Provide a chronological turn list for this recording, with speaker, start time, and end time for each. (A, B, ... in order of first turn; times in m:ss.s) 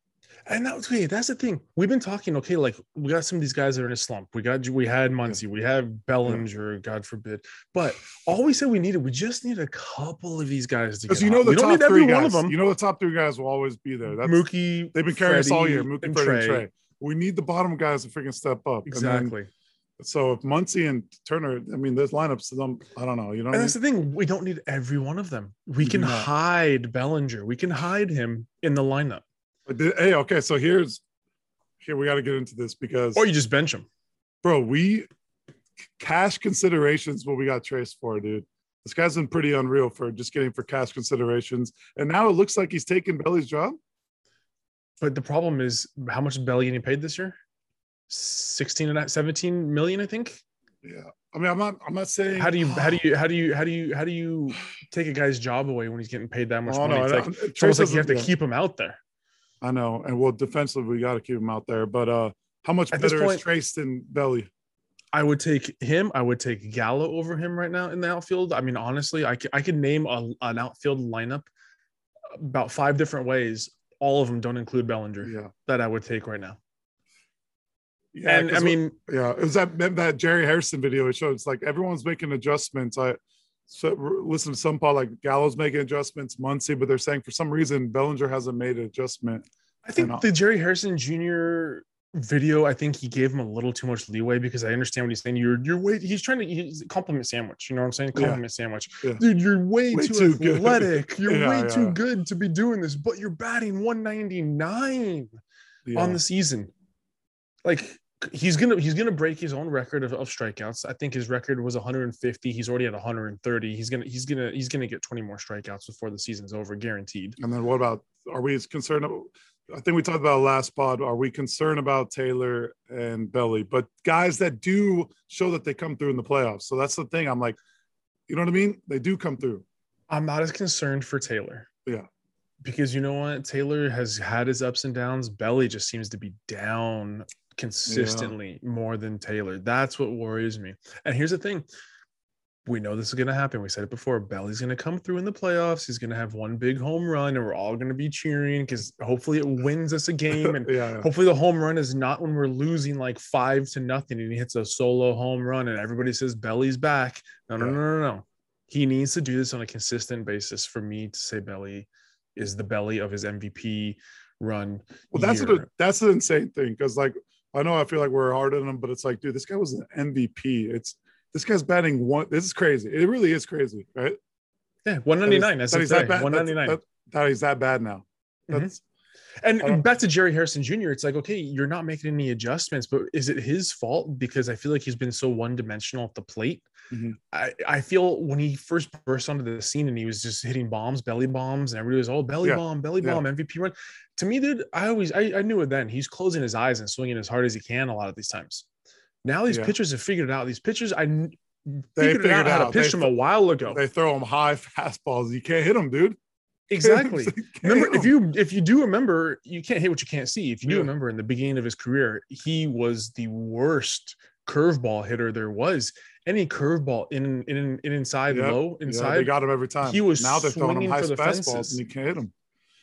0:00.5-0:12.6 A
0:11.1-0:19.4 B
0:14.2-0:16.7 A
0:18.9-0:19.5 A
0:20.0-0:23.8 B
0:23.5-0:29.2 A
0:25.8-0:26.3 B
0:29.7-0:31.0 B
0:31.8-0:33.2 B
0:33.2-0:33.9 A
0:34.4-0:35.1 B
0:36.0-0:43.8 B
0:45.0-0:47.4 A
0:48.1-0:50.4 A
0:50.8-0:53.0 B
0:52.4-0:59.0 A
0:56.7-0:58.3 B
0:59.6-1:04.5 B
1:02.9-1:03.4 A
1:05.1-1:11.5 A
1:12.4-1:16.6 A
1:15.2-1:15.5 B
1:18.1-1:29.5 B
1:18.3-1:19.0 A
1:29.8-1:45.4 A
1:30.0-1:30.2 B
1:38.2-1:38.4 B
1:39.9-1:42.0 B
1:45.9-1:46.2 B
1:46.0-1:46.7 A
1:47.6-1:57.4 A
1:57.4-2:07.6 B
2:08.3-2:09.6 B
2:10.1-2:11.7 A
2:12.6-2:21.7 A
2:17.9-2:18.4 B
2:22.7-2:45.7 A
2:30.3-2:31.1 B
2:45.1-2:54.2 B
2:54.8-2:56.8 A
2:55.2-2:58.8 B
2:59.4-3:06.7 A
3:06.9-3:07.2 B
3:07.3-3:18.7 A
3:12.4-3:13.2 B
3:19.2-3:23.8 A
3:19.5-3:19.7 B
3:22.0-3:23.1 B
3:23.7-3:26.2 B
3:26.7-3:39.3 A
3:26.8-3:28.1 B
3:30.6-3:30.9 B
3:38.3-3:42.3 B
3:39.8-3:41.8 A